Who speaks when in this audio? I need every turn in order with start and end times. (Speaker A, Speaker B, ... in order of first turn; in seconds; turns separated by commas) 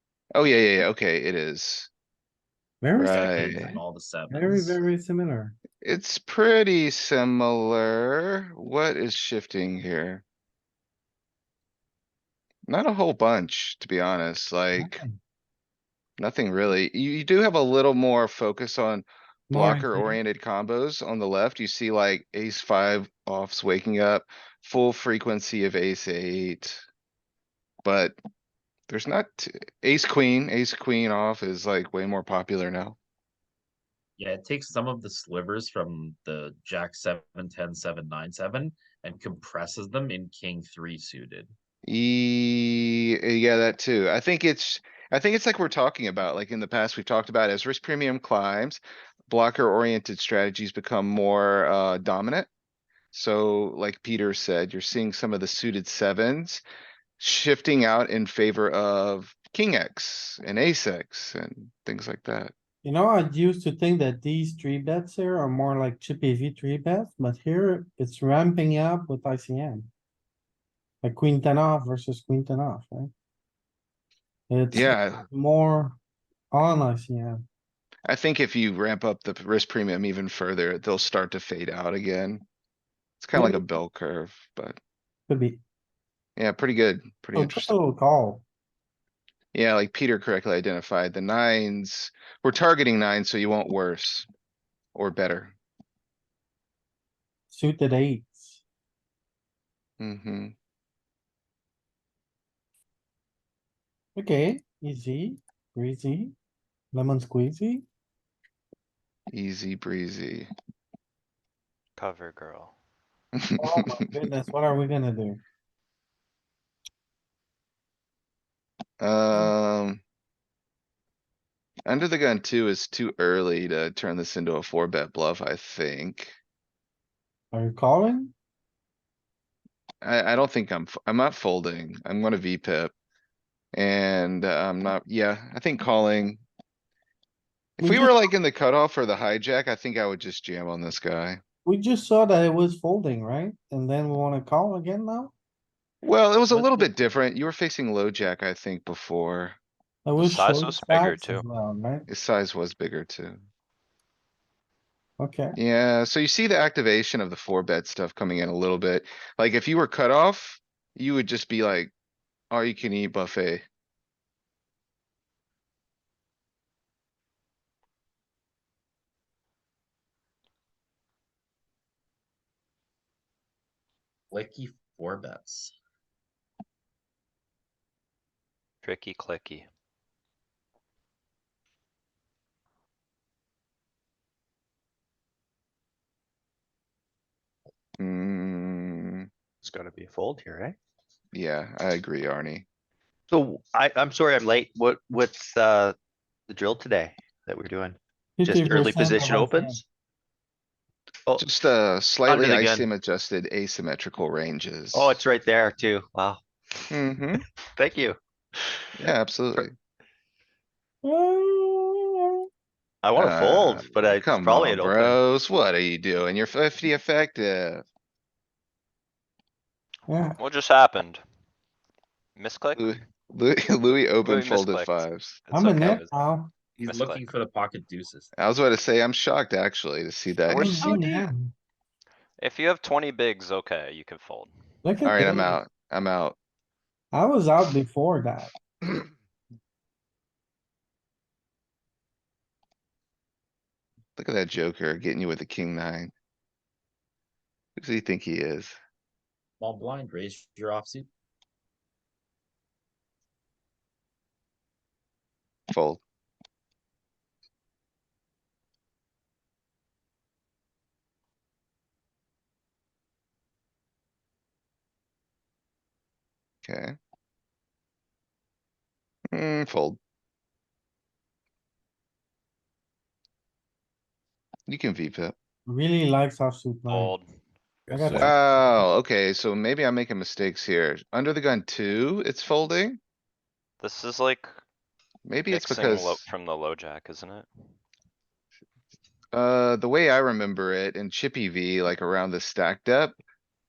Speaker A: 0.3-1.9, Speaker B: 2.8-3.8, Speaker C: 2.9-4.8, Speaker A: 3.0-3.8, Speaker B: 4.3-5.5, Speaker A: 5.8-10.2, Speaker A: 12.7-15.0, Speaker B: 14.8-15.2, Speaker A: 16.2-26.8, Speaker B: 19.5-20.2, Speaker A: 27.8-28.2, Speaker A: 28.9-33.0, Speaker C: 34.2-41.5, Speaker A: 41.9-52.5, Speaker A: 53.1-56.6, Speaker A: 57.2-62.5, Speaker B: 62.8-69.9, Speaker B: 71.0-73.1, Speaker B: 74.5-76.0, Speaker A: 74.7-75.2, Speaker B: 76.5-77.4, Speaker A: 78.1-82.4, Speaker A: 83.2-84.8, Speaker B: 83.3-83.6, Speaker B: 85.3-85.6, Speaker A: 86.4-87.7, Speaker B: 87.3-88.4, Speaker A: 89.5-94.3, Speaker A: 94.9-95.5, Speaker B: 97.5-98.6, Speaker A: 100.0-100.5, Speaker B: 104.2-106.3, Speaker B: 106.9-107.8, Speaker A: 109.3-110.5, Speaker D: 112.0-112.7, Speaker A: 113.3-114.2, Speaker B: 113.6-115.4, Speaker A: 119.0-120.0, Speaker A: 121.8-126.3, Speaker B: 127.5-128.3, Speaker A: 130.0-132.9, Speaker A: 133.7-136.4, Speaker A: 137.8-141.4, Speaker B: 137.8-138.2, Speaker B: 141.6-145.3, Speaker A: 146.0-149.6, Speaker B: 146.0-146.9, Speaker B: 150.0-152.1, Speaker D: 150.2-151.4, Speaker A: 152.1-153.4, Speaker B: 155.2-155.6, Speaker A: 155.6-161.9, Speaker A: 162.5-163.6, Speaker C: 174.3-175.7, Speaker D: 178.8-179.7, Speaker A: 188.0-189.3, Speaker E: 189.6-190.8, Speaker A: 191.3-192.6, Speaker E: 193.3-195.9, Speaker E: 196.5-199.8, Speaker B: 198.4-199.8, Speaker A: 201.4-205.2, Speaker E: 202.3-202.9, Speaker E: 204.9-206.9, Speaker A: 206.9-207.4, Speaker E: 207.8-209.0, Speaker A: 208.9-209.7, Speaker B: 211.0-212.4, Speaker E: 213.0-215.2, Speaker A: 213.2-217.8, Speaker B: 220.1-220.4, Speaker D: 220.4-221.2, Speaker D: 222.3-222.8, Speaker A: 222.8-225.4, Speaker D: 224.2-226.1, Speaker B: 225.5-226.5, Speaker C: 226.8-228.3, Speaker D: 226.8-227.3, Speaker A: 228.3-231.1, Speaker B: 230.5-231.5, Speaker D: 230.6-231.0, Speaker D: 232.4-234.5, Speaker B: 234.8-235.6, Speaker A: 235.0-236.4, Speaker B: 237.1-238.5, Speaker A: 244.2-246.1, Speaker A: 247.8-248.8, Speaker C: 249.6-251.1, Speaker A: 255.7-256.0, Speaker A: 266.6-266.9, Speaker A: 269.3-270.0, Speaker A: 274.7-275.3, Speaker B: 275.6-277.1, Speaker D: 276.9-277.2, Speaker B: 277.9-278.4, Speaker A: 278.1-283.0, Speaker D: 283.8-284.5, Speaker A: 285.2-286.2, Speaker D: 285.5-287.5, Speaker A: 289.3-293.2